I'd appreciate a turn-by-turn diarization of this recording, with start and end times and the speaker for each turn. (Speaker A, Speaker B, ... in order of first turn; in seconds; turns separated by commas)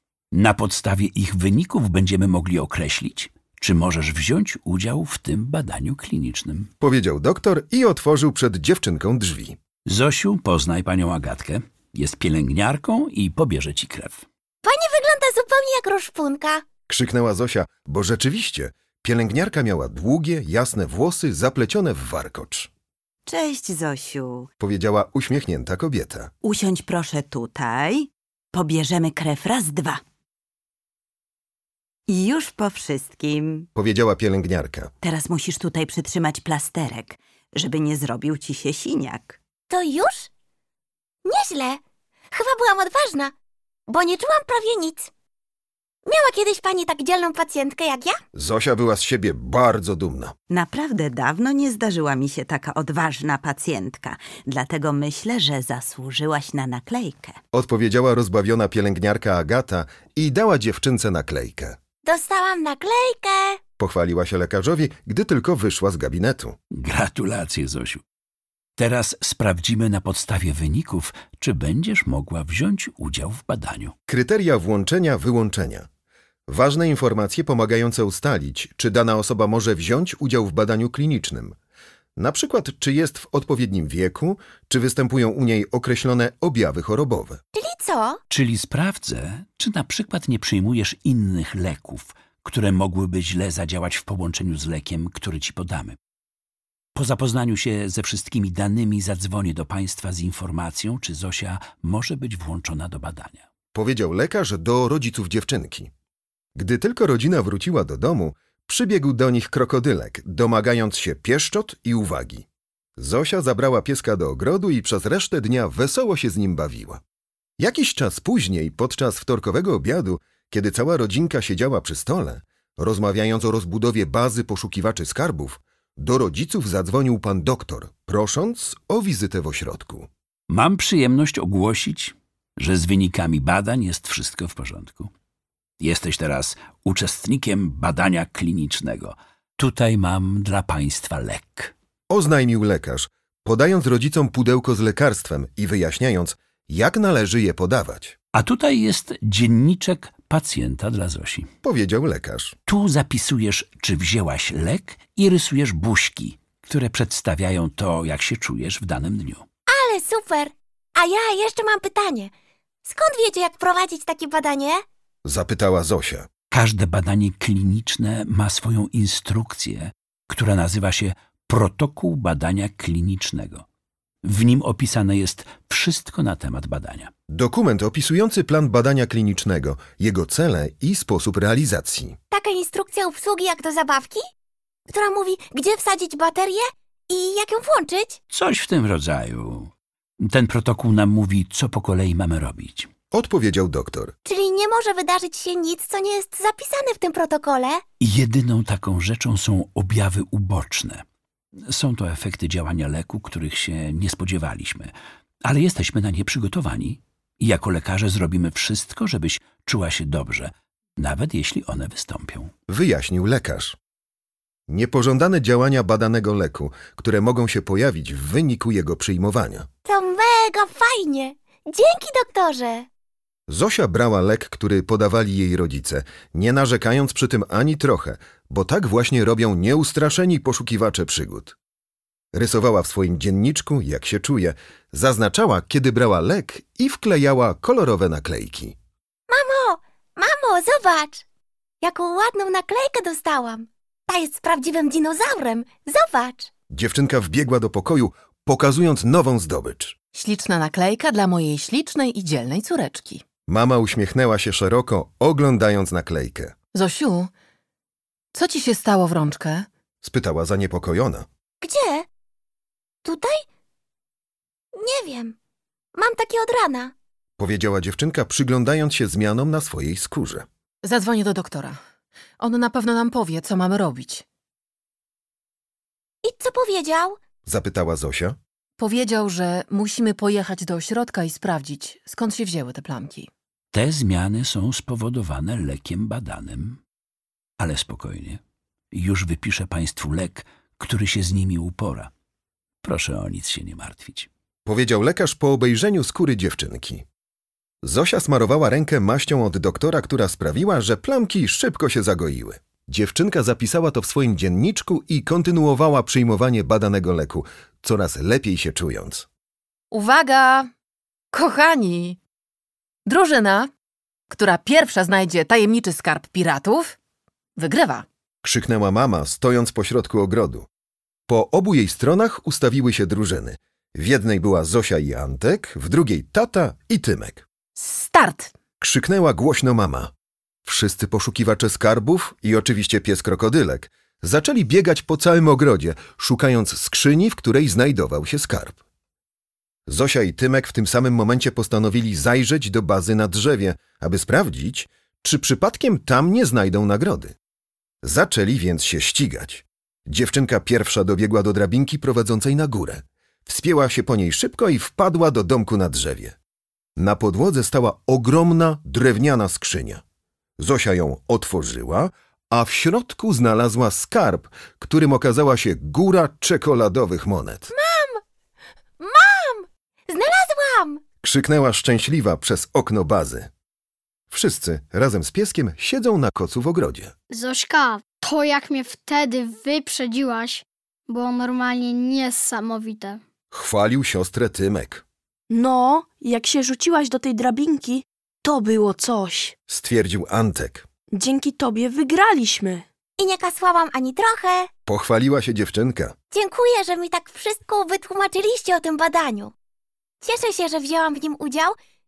Speaker A: 0.3-6.7, Speaker B: 6.8-9.6, Speaker A: 9.9-14.2, Speaker C: 14.6-16.6, Speaker B: 16.9-22.7, Speaker D: 23.3-24.5, Speaker B: 24.6-26.3, Speaker D: 26.4-30.0, Speaker D: 32.1-33.7, Speaker B: 33.8-34.9, Speaker D: 35.0-39.4, Speaker C: 39.7-40.3, Speaker C: 41.2-41.8, Speaker C: 42.3-43.3, Speaker C: 43.9-45.1, Speaker C: 46.1-48.2, Speaker B: 48.3-50.3, Speaker D: 50.5-57.4, Speaker B: 57.5-61.8, Speaker C: 62.0-63.6, Speaker B: 63.8-66.6, Speaker A: 66.8-68.0, Speaker A: 68.8-74.0, Speaker B: 74.1-75.9, Speaker B: 76.5-81.6, Speaker B: 82.2-87.4, Speaker C: 87.5-88.2, Speaker A: 88.3-96.0, Speaker A: 97.0-103.5, Speaker B: 103.7-105.9, Speaker B: 106.6-112.5, Speaker B: 113.0-117.0, Speaker B: 117.6-130.1, Speaker A: 130.5-135.1, Speaker A: 135.8-141.7, Speaker B: 142.1-148.2, Speaker A: 148.3-151.5, Speaker B: 151.6-152.6, Speaker A: 152.7-159.4, Speaker C: 159.7-162.3, Speaker C: 162.9-164.8, Speaker B: 165.2-166.3, Speaker A: 166.5-173.6, Speaker A: 174.2-177.1, Speaker B: 177.3-182.2, Speaker C: 182.3-184.2, Speaker C: 184.9-188.2, Speaker A: 188.3-192.9, Speaker B: 193.1-194.1, Speaker C: 194.2-197.8, Speaker A: 198.0-201.0, Speaker A: 201.7-204.9, Speaker A: 205.4-212.5, Speaker B: 212.7-213.8, Speaker B: 214.7-219.7, Speaker C: 219.9-222.9, Speaker B: 223.5-231.6, Speaker B: 232.3-238.8, Speaker C: 239.3-241.2, Speaker C: 241.8-246.5, Speaker B: 246.7-250.0, Speaker E: 250.1-253.2, Speaker B: 253.5-256.5, Speaker E: 256.7-257.3, Speaker E: 258.3-259.7, Speaker B: 260.0-261.3, Speaker C: 261.6-262.1, Speaker C: 263.1-263.4, Speaker C: 264.8-265.4, Speaker C: 266.0-266.9, Speaker B: 267.4-270.4, Speaker E: 270.8-271.8, Speaker E: 272.4-274.2, Speaker C: 276.2-277.2, Speaker B: 277.5-278.4, Speaker E: 278.8-283.3, Speaker A: 283.7-286.8, Speaker A: 287.6-288.4, Speaker A: 288.9-292.1, Speaker A: 292.8-294.3, Speaker B: 294.7-297.1, Speaker B: 297.8-309.3, Speaker E: 309.9-310.7, Speaker E: 311.3-312.2, Speaker E: 313.1-313.7, Speaker E: 314.3-317.0, Speaker E: 317.6-318.1, Speaker B: 318.4-320.7, Speaker B: 321.3-327.5, Speaker E: 327.8-328.5, Speaker B: 328.8-330.1, Speaker B: 330.7-338.8, Speaker B: 339.9-347.4, Speaker B: 348.0-356.4, Speaker B: 357.0-360.0, Speaker B: 360.6-367.7, Speaker C: 367.7-368.2, Speaker C: 369.0-371.0, Speaker B: 371.2-373.5, Speaker B: 374.3-377.1, Speaker F: 377.3-383.2, Speaker B: 383.5-385.0, Speaker G: 385.5-389.6, Speaker B: 389.7-390.9, Speaker G: 391.1-392.9, Speaker C: 393.2-394.7, Speaker B: 394.9-396.1, Speaker C: 396.3-399.5, Speaker C: 400.2-401.7